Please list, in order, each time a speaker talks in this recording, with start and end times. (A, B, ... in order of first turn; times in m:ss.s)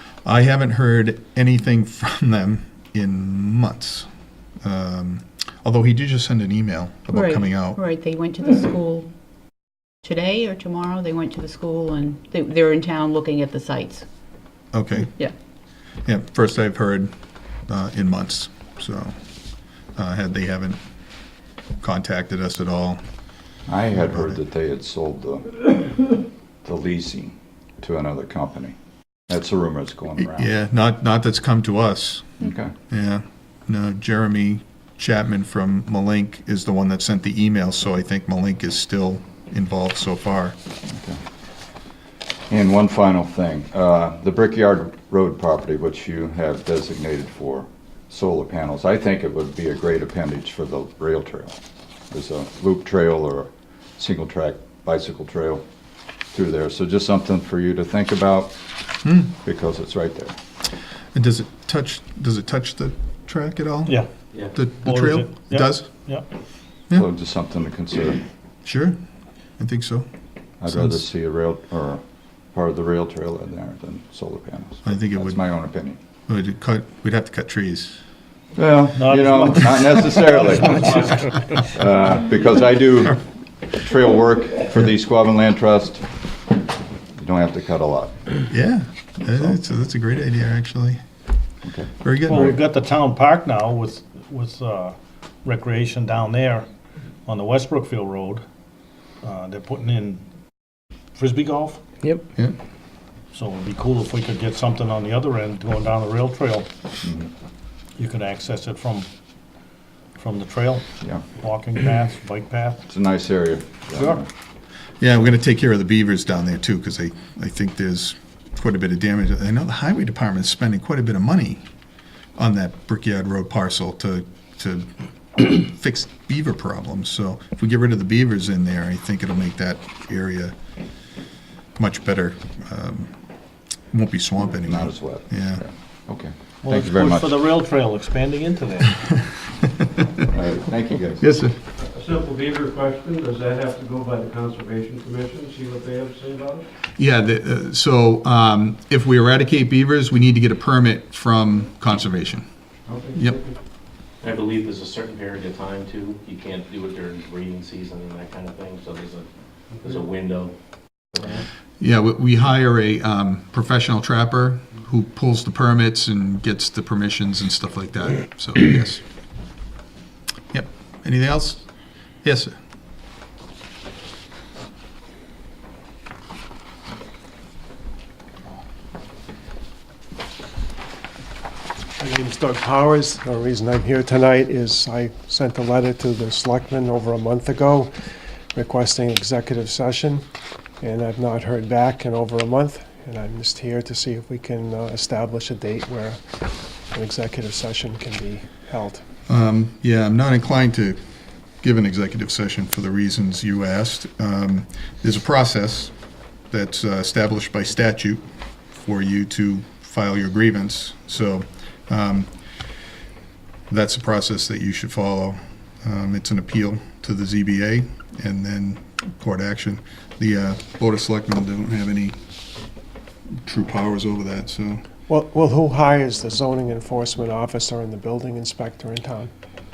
0:00.2-0:04.1 A
0:04.6-0:07.8 A
0:07.1-0:09.1 B
0:10.0-0:14.0 B
0:14.7-0:15.1 A
0:15.1-0:15.3 B
0:16.0-0:17.1 A
0:17.7-0:19.1 A
0:20.0-0:20.8 A
0:21.8-0:23.0 A
0:23.7-0:26.1 C
0:24.0-0:24.4 A
0:26.6-0:28.8 C
0:29.3-0:30.5 C
0:30.2-0:40.6 A
0:32.4-0:32.7 C
0:40.9-0:41.2 C
0:42.5-0:51.6 C
0:52.1-0:55.6 C
0:56.3-0:58.6 C
0:59.0-0:59.3 A
0:59.4-1:00.4 C
1:01.1-1:05.9 A
1:04.8-1:06.3 D
1:06.9-1:08.2 C
1:08.6-1:09.0 A
1:09.6-1:10.1 A
1:10.6-1:12.0 C
1:10.7-1:11.0 A
1:12.5-1:16.0 C
1:14.8-1:15.4 A
1:16.3-1:18.0 A
1:18.6-1:26.1 C
1:19.0-1:21.3 D
1:27.2-1:28.2 C
1:28.5-1:31.0 A
1:31.6-1:31.9 C
1:32.0-1:32.5 A
1:32.3-1:36.7 D
1:37.2-1:38.4 D
1:39.2-1:40.2 D
1:41.2-1:41.8 D
1:43.3-1:46.7 D
1:47.0-1:47.3 C
1:48.0-1:49.1 D
1:50.2-1:52.8 D
1:52.9-1:54.3 C
1:53.9-1:54.2 D
1:55.0-2:01.6 A
2:02.4-2:10.6 A
2:11.8-2:13.1 A
2:13.9-2:15.6 A
2:14.7-2:17.3 C
2:16.6-2:19.0 D
2:20.3-2:21.2 C
2:21.2-2:21.6 A
2:21.8-2:26.6 E
2:27.0-2:32.4 A
2:32.9-2:33.6 E
2:33.1-2:33.4 A
2:34.2-2:41.4 F
2:39.7-2:40.0 E
2:41.8-2:49.0 A
2:50.5-2:51.6 A
2:52.2-2:52.6 A
3:02.0-3:07.9 G
3:08.5-3:10.2 G
3:10.8-3:16.2 G
3:16.9-3:19.0 G
3:19.3-3:21.0 A
3:21.6-3:25.9 A
3:26.5-3:28.2 A
3:28.7-3:32.3 A
3:33.7-3:42.2 A
3:43.4-3:44.8 A
3:45.1-3:49.3 G